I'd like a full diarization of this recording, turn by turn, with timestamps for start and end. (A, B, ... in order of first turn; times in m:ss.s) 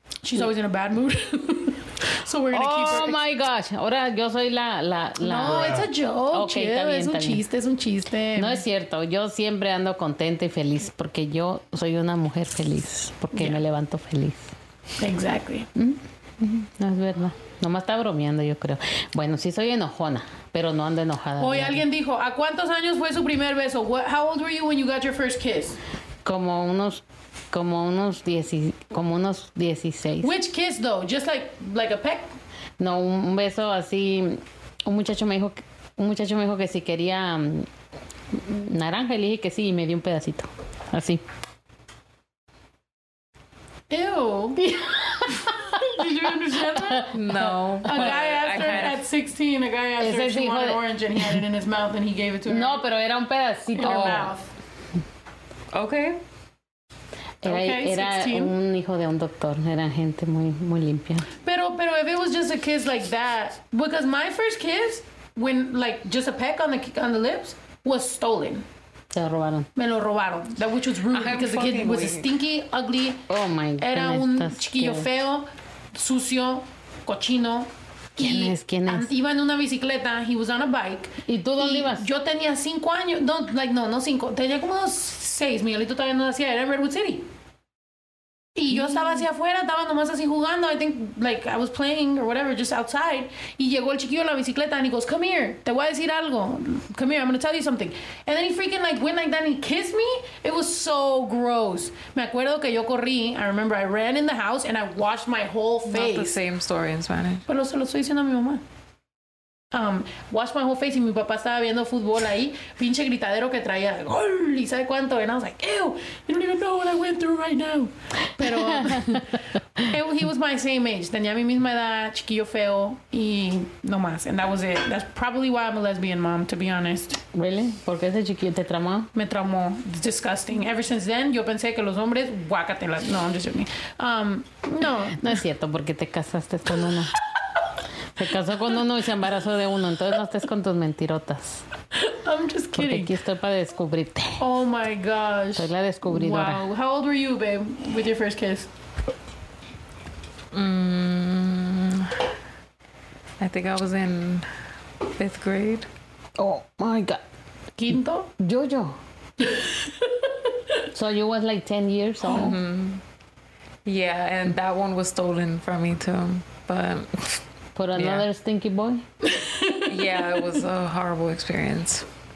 0:00.2-0:03.2 A
0:02.5-0:07.4 B
0:05.2-0:08.6 A
0:08.4-0:14.5 B
0:13.3-0:13.6 A
0:15.0-0:15.7 A
0:15.7-0:21.8 B
0:21.4-0:25.8 A
0:26.2-0:30.3 B
0:30.2-0:32.3 A
0:32.8-0:37.7 B
0:38.3-0:41.2 B
0:43.9-0:44.6 A
0:44.6-0:46.1 B
0:45.7-0:47.1 A
0:46.7-0:48.2 B
0:47.1-0:49.0 C
0:47.8-0:52.8 A
0:50.0-0:51.4 B
0:52.5-0:54.3 B
0:53.7-0:54.5 A
0:55.7-0:56.2 C
0:57.4-1:01.3 B
0:57.4-0:58.5 A
1:01.4-1:08.6 A
1:09.1-1:09.7 B
1:09.8-1:13.2 A
1:11.1-1:12.3 C
1:13.3-1:15.1 B
1:13.8-1:27.2 A
1:18.2-1:19.1 B
1:21.2-1:22.1 B
1:28.6-1:46.4 A
1:28.7-1:29.1 B
1:45.9-1:47.4 C
1:47.5-1:48.6 A
1:49.7-2:07.2 A
1:58.4-1:59.2 B
2:07.3-2:09.1 B
2:09.1-2:15.4 A
2:15.1-2:17.1 B
2:18.2-2:21.6 B
2:21.9-2:23.1 A
2:22.7-2:24.4 B
2:24.4-2:28.7 A
2:25.6-2:26.6 B
2:30.5-2:32.2 C
2:33.4-2:34.5 C
2:35.2-2:35.9 C
2:36.4-2:37.2 B
2:37.8-2:38.3 A
2:38.4-2:39.0 B
2:40.9-2:42.6 B
2:42.3-2:43.0 C
2:43.8-2:47.4 C
2:47.8-2:49.0 B
2:47.9-2:48.2 C
2:49.3-2:50.2 A
2:49.8-2:52.0 C